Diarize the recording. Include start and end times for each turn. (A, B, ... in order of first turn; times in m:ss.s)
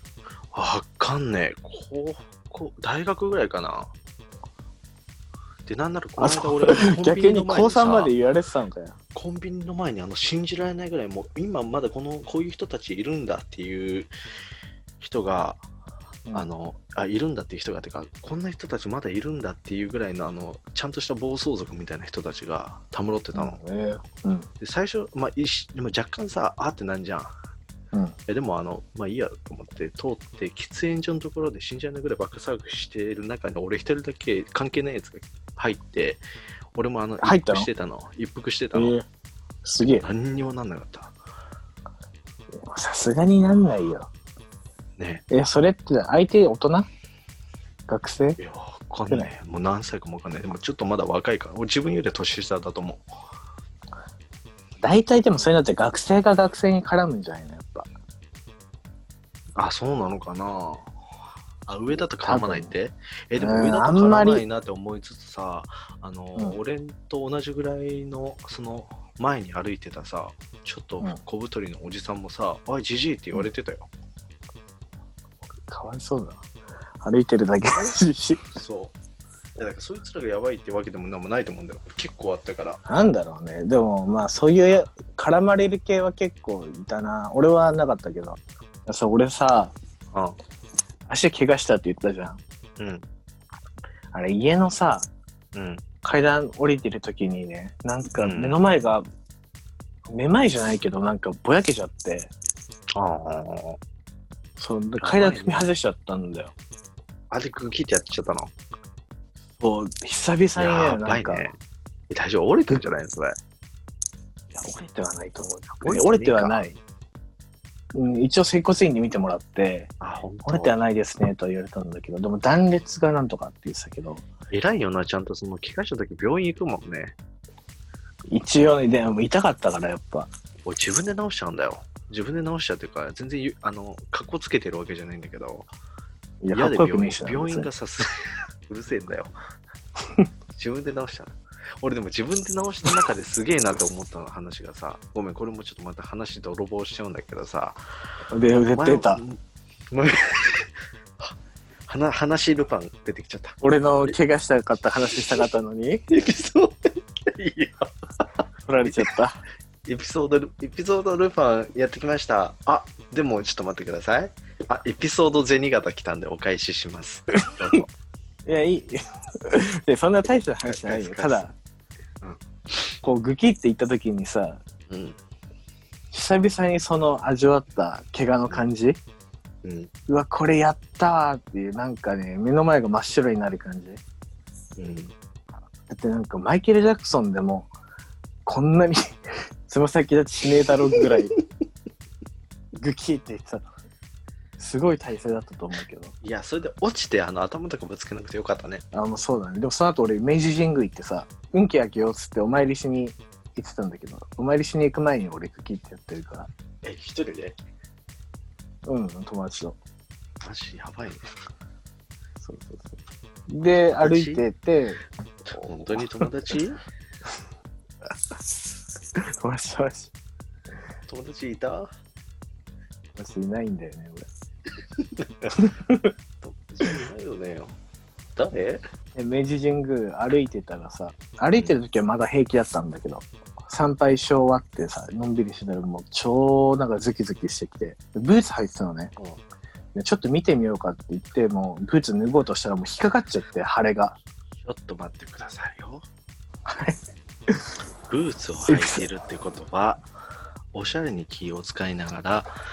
0:00.5-0:03.9 A
0:05.6-0:08.1 A
0:06.2-0:09.0 B
0:09.1-0:14.1 A
0:15.0-0:15.6 A
0:16.3-0:23.6 A
0:23.3-0:24.5 B
0:24.6-0:27.3 A
0:28.3-0:36.2 A
0:36.7-0:39.0 A
0:37.2-0:37.7 B
0:38.7-0:39.0 B
0:39.6-0:40.0 B
0:39.8-0:41.1 A
0:42.6-0:44.1 B
0:45.0-0:45.2 A
0:45.3-0:46.9 B
0:47.9-0:48.4 B
0:48.4-0:53.0 A
0:54.8-0:57.9 B
0:59.6-1:00.9 A
1:01.6-1:13.9 A
1:02.2-1:02.7 B
1:03.4-1:04.4 B
1:15.7-1:16.4 B
1:17.0-1:18.4 B
1:18.4-1:18.9 A
1:19.6-1:22.8 A
1:22.9-1:29.7 B
1:31.1-1:32.4 B
1:32.8-1:33.0 A
1:34.1-1:35.1 B
1:35.5-1:35.8 A
1:36.0-1:39.0 B
1:38.2-1:38.6 A
1:40.1-1:42.3 B
1:43.0-1:43.8 A
1:44.6-1:46.5 B
1:45.0-1:45.7 A
1:47.3-1:48.5 A
1:49.6-1:51.5 B
1:50.6-1:51.6 A
1:52.1-1:53.4 A
1:54.5-1:56.8 B
1:55.8-1:56.6 A
1:57.9-1:59.9 B
2:00.0-2:00.7 A
2:00.4-2:04.2 B
2:04.5-2:07.2 A
2:08.3-2:10.3 B
2:10.6-2:15.7 A
2:16.4-2:17.7 B
2:16.5-2:19.3 A
2:20.5-2:27.8 A
2:28.3-2:29.2 B
2:28.7-2:29.4 A
2:29.9-2:31.3 A
2:31.8-2:34.2 A
2:33.6-2:36.0 B
2:36.1-2:38.2 A
2:38.6-2:39.4 B
2:38.8-2:39.1 A
2:39.8-2:47.9 A
2:48.4-2:51.5 B
2:50.6-2:51.5 A
2:53.0-2:54.6 B
2:54.9-2:55.2 A
2:56.1-2:59.0 B
2:59.6-2:59.9 A
3:00.1-3:04.0 B
3:04.8-3:05.1 A
3:05.9-3:07.7 B
3:08.4-3:09.0 B
3:09.7-3:11.3 B
3:12.8-3:13.6 B
3:14.6-3:16.1 B
3:16.2-3:18.8 A
3:18.9-3:26.5 B
3:26.8-3:27.6 A
3:28.8-3:29.8 B
3:30.4-3:31.3 A
3:32.4-3:33.0 B
3:33.5-3:35.0 B
3:33.9-3:34.4 A
3:35.4-3:36.8 A
3:39.4-3:40.1 B
3:41.0-3:41.9 A
3:43.1-3:44.2 B
3:45.0-3:45.6 A
3:45.6-3:46.1 B
3:46.4-3:47.8 A
3:48.4-3:48.8 A
3:49.1-3:59.1 B
3:59.9-4:04.2 B
4:04.6-4:06.0 A
4:06.6-4:07.0 B
4:08.1-4:10.0 A
4:08.7-4:09.1 B
4:10.7-4:12.5 A